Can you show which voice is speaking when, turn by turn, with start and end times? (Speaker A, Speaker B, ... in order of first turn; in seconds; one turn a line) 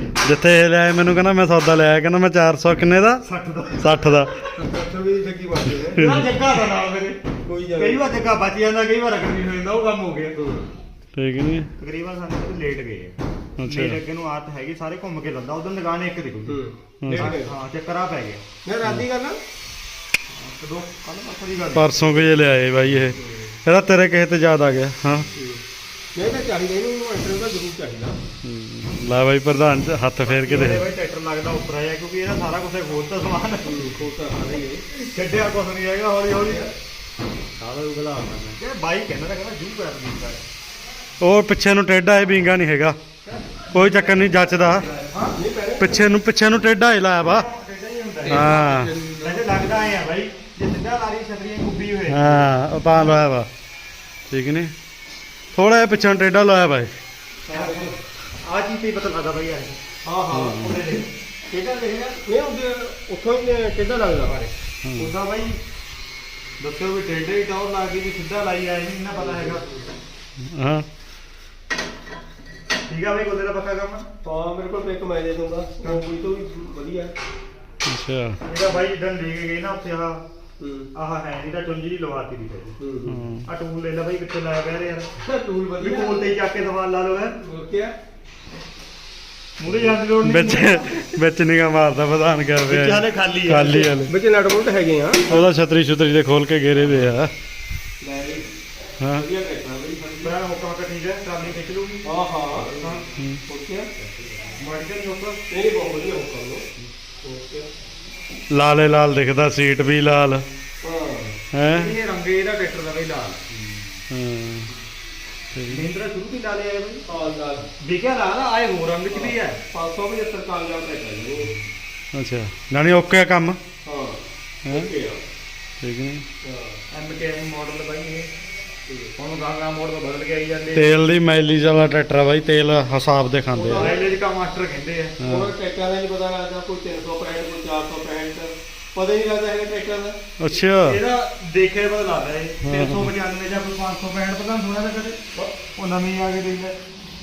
Speaker A: 0.2-3.2
Speaker B: 3.2-4.1
Speaker A: 3.8-4.5
Speaker C: 4.6-6.0
Speaker B: 5.9-7.2
Speaker A: 6.0-6.2
Speaker C: 7.4-8.1
Speaker B: 7.8-10.3
Speaker C: 10.3-10.7
Speaker A: 11.2-11.7
Speaker B: 11.8-16.6
Speaker A: 13.6-14.0
Speaker C: 16.5-17.5
Speaker A: 17.0-17.4
Speaker B: 17.1-18.4
Speaker C: 18.6-19.4
Speaker B: 20.3-22.3
Speaker A: 21.7-25.3
Speaker C: 23.1-23.6
Speaker C: 25.4-25.6
Speaker C: 26.1-28.2
Speaker A: 28.4-30.9
Speaker B: 30.2-33.9
Speaker C: 33.6-34.8
Speaker B: 34.9-36.6
Speaker C: 36.4-36.7
Speaker B: 37.6-40.4
Speaker A: 41.2-43.0
Speaker C: 43.2-44.3
Speaker A: 43.7-44.8
Speaker C: 44.8-46.0
Speaker B: 44.9-45.4
Speaker A: 45.8-47.5
Speaker B: 47.2-48.6
Speaker C: 48.2-49.5
Speaker A: 48.3-48.9
Speaker B: 49.2-52.5
Speaker A: 52.1-53.5
Speaker A: 54.3-54.7
Speaker A: 55.5-56.9
Speaker C: 57.5-58.0
Speaker B: 57.5-59.8
Speaker C: 60.0-60.8
Speaker A: 60.3-60.9
Speaker B: 60.5-61.1
Speaker C: 61.5-64.5
Speaker A: 64.8-65.1
Speaker B: 65.0-65.6
Speaker B: 66.6-69.6
Speaker C: 69.2-69.8
Speaker A: 70.4-70.8
Speaker B: 72.8-74.1
Speaker C: 74.2-77.1
Speaker A: 77.8-78.4
Speaker B: 78.4-80.2
Speaker C: 80.6-80.9
Speaker B: 80.9-82.8
Speaker C: 82.8-83.2
Speaker A: 83.1-83.5
Speaker B: 83.4-85.1
Speaker C: 85.2-86.3
Speaker B: 85.8-87.4
Speaker C: 87.4-87.9
Speaker B: 89.6-91.1
Speaker A: 90.2-94.1
Speaker B: 92.7-94.0
Speaker C: 94.1-95.4
Speaker A: 95.2-97.3
Speaker C: 98.0-98.5
Speaker A: 99.0-99.2
Speaker C: 99.1-100.3
Speaker B: 100.2-103.0
Speaker C: 102.0-103.9
Speaker B: 104.5-105.4
Speaker C: 105.5-106.7
Speaker C: 107.2-107.7
Speaker A: 108.5-110.5
Speaker C: 110.8-111.3
Speaker A: 111.5-111.9
Speaker B: 111.7-113.6
Speaker A: 114.1-114.7
Speaker A: 115.5-115.8
Speaker B: 115.7-117.0
Speaker C: 117.0-117.7
Speaker B: 117.7-119.6
Speaker C: 119.1-121.5
Speaker A: 122.1-123.6
Speaker C: 123.8-125.2
Speaker A: 125.8-126.2
Speaker C: 126.4-126.8
Speaker B: 126.9-128.3
Speaker C: 128.9-129.1
Speaker B: 129.2-131.1
Speaker A: 130.7-133.9
Speaker B: 133.5-135.2
Speaker C: 133.6-134.1
Speaker A: 135.2-135.5
Speaker C: 135.2-140.2
Speaker A: 140.4-141.0
Speaker B: 140.6-145.2
Speaker A: 142.6-143.1
Speaker B: 145.7-146.8